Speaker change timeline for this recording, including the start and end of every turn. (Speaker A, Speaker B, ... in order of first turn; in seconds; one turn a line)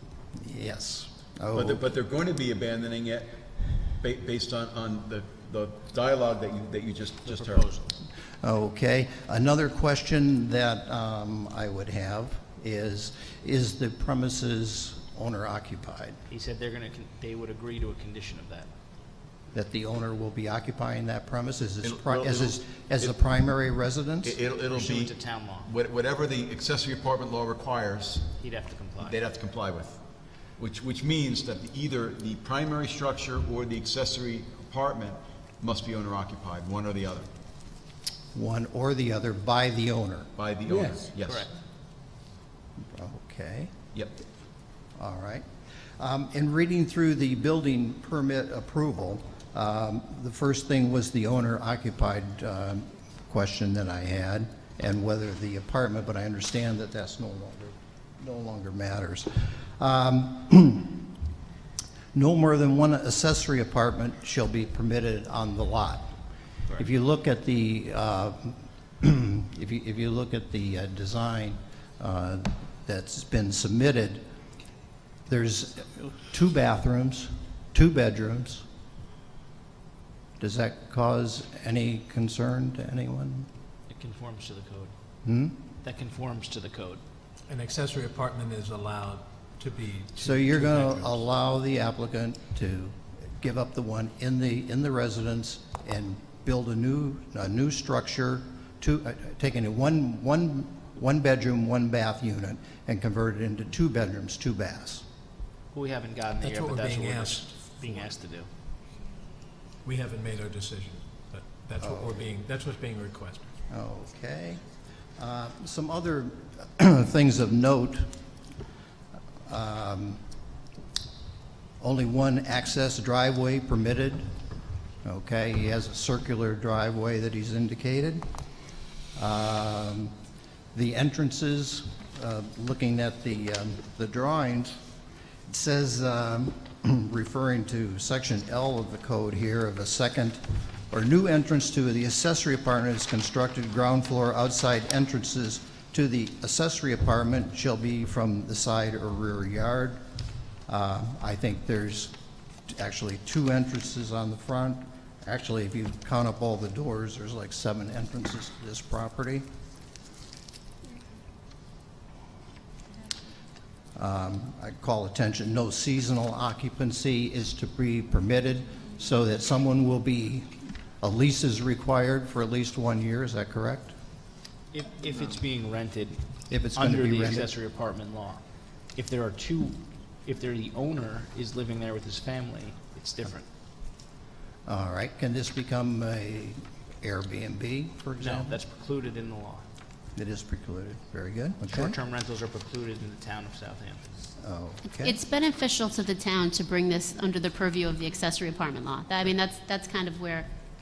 Speaker A: 0.4-1.9
Speaker B: 1.5-3.4
Speaker B: 4.0-7.8
Speaker C: 7.2-7.9
Speaker A: 8.4-16.2
Speaker C: 16.3-18.7
Speaker A: 19.5-24.4
Speaker B: 21.8-23.1
Speaker B: 24.2-25.1
Speaker C: 24.7-25.7
Speaker B: 25.6-28.3
Speaker C: 28.4-29.2
Speaker B: 29.0-30.0
Speaker B: 30.6-37.3
Speaker A: 38.3-40.3
Speaker B: 40.4-41.5
Speaker C: 41.2-41.5
Speaker A: 42.8-43.7
Speaker A: 45.0-45.5
Speaker A: 46.0-61.1
Speaker A: 62.1-66.1
Speaker A: 66.8-74.2
Speaker A: 75.3-78.6
Speaker A: 80.4-83.5
Speaker C: 83.9-84.9
Speaker A: 85.2-85.5
Speaker C: 85.8-87.0
Speaker D: 87.5-91.2
Speaker A: 90.2-105.0
Speaker C: 105.7-108.5
Speaker D: 106.4-108.1
Speaker D: 109.8-113.5
Speaker A: 111.8-112.1
Speaker A: 113.7-114.6
Speaker A: 115.2-118.1
Speaker A: 119.5-120.2
Speaker A: 121.8-124.3
Speaker A: 125.0-128.2
Speaker A: 129.2-130.1
Speaker A: 130.7-134.8
Speaker A: 135.5-150.0
Speaker A: 150.7-152.1
Speaker A: 152.7-159.4
Speaker A: 163.9-173.9
Speaker C: 174.7-176.2
Speaker A: 176.5-177.5
Speaker C: 176.7-178.4
Speaker C: 178.9-183.4
Speaker A: 184.7-188.6
Speaker C: 188.2-189.7
Speaker A: 190.2-192.0
Speaker C: 191.7-194.1
Speaker A: 194.4-195.2
Speaker E: 194.9-200.5